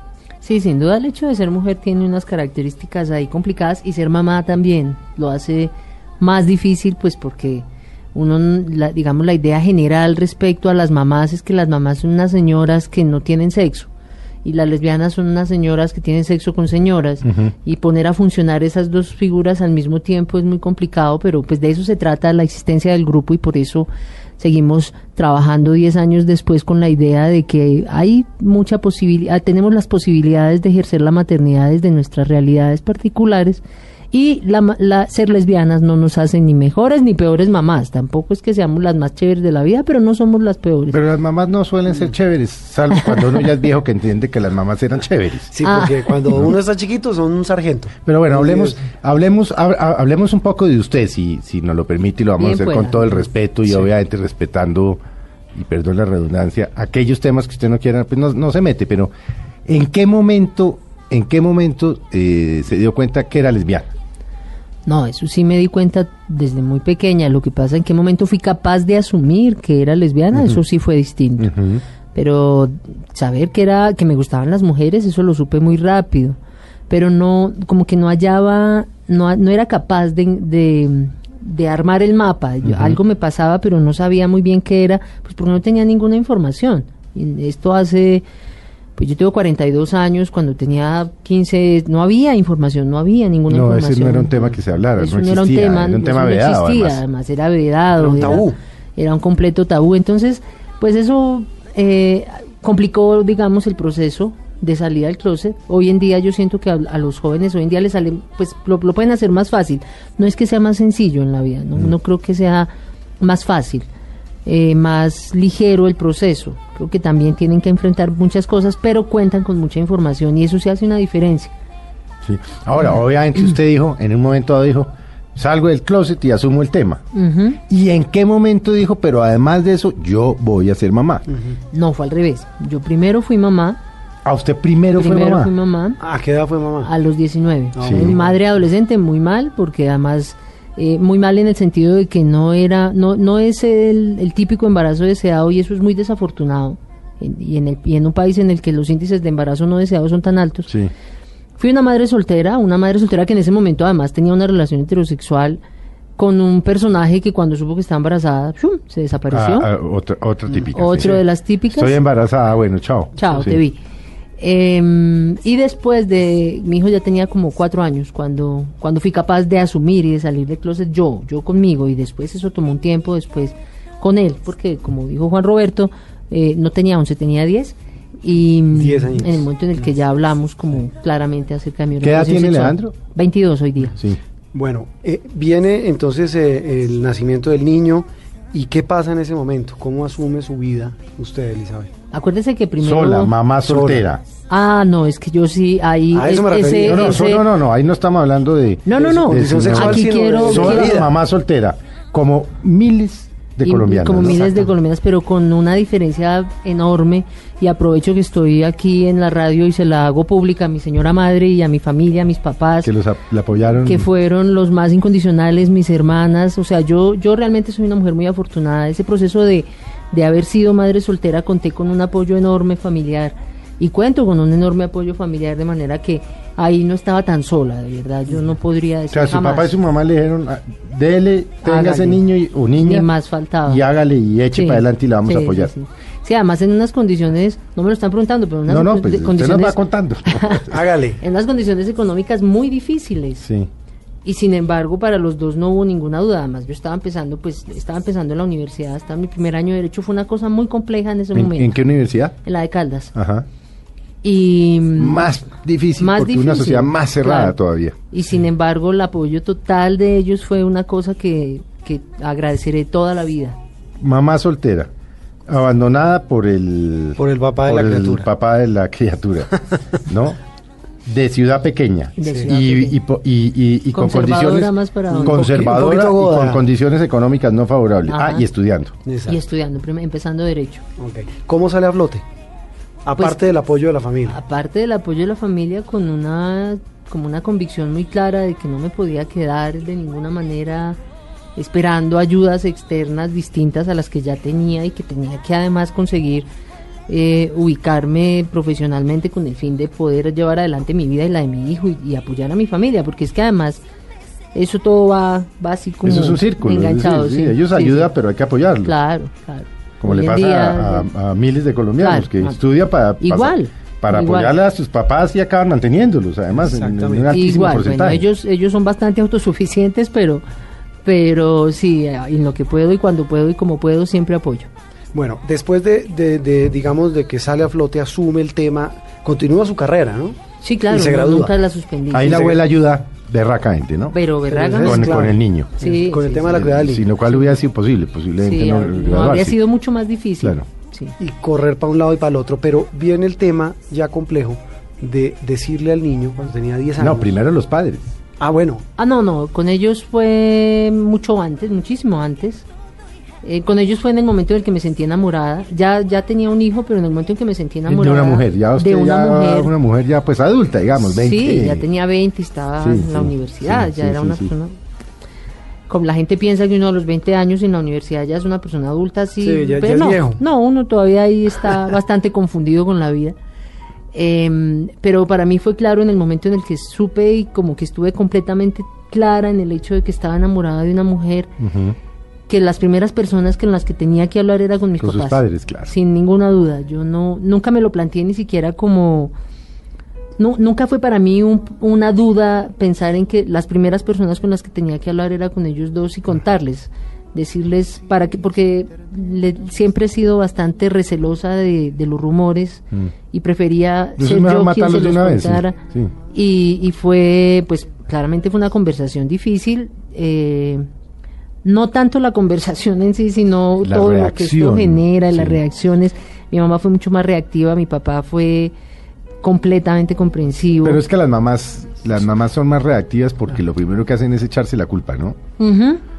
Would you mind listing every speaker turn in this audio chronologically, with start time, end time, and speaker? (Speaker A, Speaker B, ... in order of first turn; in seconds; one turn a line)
Speaker A: 0.4-13.9
Speaker A: 14.4-41.0
Speaker B: 17.2-17.5
Speaker B: 40.9-45.5
Speaker C: 45.5-48.8
Speaker A: 45.6-46.5
Speaker B: 48.0-55.0
Speaker A: 52.4-53.1
Speaker B: 55.5-59.1
Speaker B: 59.6-63.9
Speaker A: 64.8-71.5
Speaker B: 70.3-70.6
Speaker B: 71.4-71.8
Speaker A: 72.1-76.4
Speaker A: 76.9-88.2
Speaker B: 82.6-83.0
Speaker A: 89.0-94.4
Speaker B: 93.5-97.0
Speaker A: 95.0-113.9
Speaker C: 98.0-98.6
Speaker A: 114.4-121.5
Speaker B: 122.2-127.0
Speaker A: 127.1-127.6
Speaker B: 127.7-131.2
Speaker A: 131.7-133.8
Speaker B: 134.2-135.5
Speaker A: 135.0-136.0
Speaker C: 136.0-136.9
Speaker A: 136.8-150.7
Speaker C: 137.7-138.3
Speaker B: 137.8-138.2
Speaker A: 151.6-155.6
Speaker A: 156.2-159.7
Speaker B: 159.3-161.2
Speaker A: 160.7-162.0
Speaker B: 161.7-163.6
Speaker A: 163.2-163.8
Speaker A: 164.4-184.0
Speaker C: 178.7-179.5
Speaker B: 182.0-182.9
Speaker B: 183.9-184.2
Speaker C: 184.5-191.9
Speaker A: 192.1-193.3
Speaker B: 192.8-194.2
Speaker C: 193.6-194.0
Speaker A: 194.5-197.5
Speaker C: 196.1-197.2
Speaker B: 196.8-204.6
Speaker A: 198.8-201.0
Speaker C: 199.0-201.1
Speaker A: 203.6-212.9
Speaker B: 212.8-214.1
Speaker A: 213.6-229.7
Speaker B: 229.1-233.1
Speaker A: 231.6-233.8
Speaker B: 233.6-235.7
Speaker A: 234.5-240.7
Speaker B: 238.7-240.6
Speaker C: 240.7-241.2
Speaker A: 241.2-243.4
Speaker B: 243.4-243.7
Speaker A: 244.2-251.8
Speaker B: 251.3-252.4
Speaker A: 252.4-253.1
Speaker B: 253.1-253.5
Speaker A: 254.2-255.3
Speaker B: 254.9-257.9
Speaker A: 256.0-257.6
Speaker A: 258.1-263.6
Speaker B: 264.0-264.9
Speaker B: 265.5-270.4
Speaker C: 267.2-268.3
Speaker B: 271.1-278.9
Speaker A: 272.2-273.0
Speaker C: 272.2-272.5
Speaker A: 273.9-275.7
Speaker C: 275.1-276.6
Speaker A: 278.1-278.5
Speaker C: 279.0-279.4
Speaker A: 279.3-280.8
Speaker C: 281.0-282.2
Speaker C: 283.0-284.4
Speaker A: 284.3-291.0
Speaker A: 291.6-296.5
Speaker A: 297.1-303.8
Speaker A: 304.5-308.1
Speaker B: 306.0-308.9
Speaker A: 308.8-311.1
Speaker B: 310.0-318.2
Speaker A: 312.0-312.6
Speaker A: 313.2-314.6
Speaker C: 316.6-317.3
Speaker A: 317.3-320.4
Speaker A: 321.0-324.7
Speaker C: 325.1-331.6
Speaker A: 330.6-332.4
Speaker B: 332.1-334.2
Speaker C: 332.2-332.6
Speaker A: 334.1-336.6
Speaker C: 334.5-337.1
Speaker B: 334.7-335.7
Speaker B: 336.5-339.6
Speaker A: 338.4-341.1
Speaker C: 341.2-347.4
Speaker B: 347.0-348.1
Speaker C: 348.4-348.8
Speaker A: 349.0-352.7
Speaker A: 353.4-359.7
Speaker B: 357.9-361.9
Speaker A: 361.1-364.8
Speaker B: 362.8-364.5
Speaker A: 365.9-373.4
Speaker C: 369.4-370.4
Speaker A: 374.1-381.5
Speaker B: 381.6-382.0
Speaker A: 382.5-389.3
Speaker B: 385.0-385.9
Speaker A: 390.4-405.8
Speaker B: 404.2-406.1
Speaker A: 406.3-410.9
Speaker A: 411.6-418.7
Speaker B: 413.8-415.6
Speaker A: 419.4-421.0
Speaker B: 420.8-425.4
Speaker A: 425.6-426.0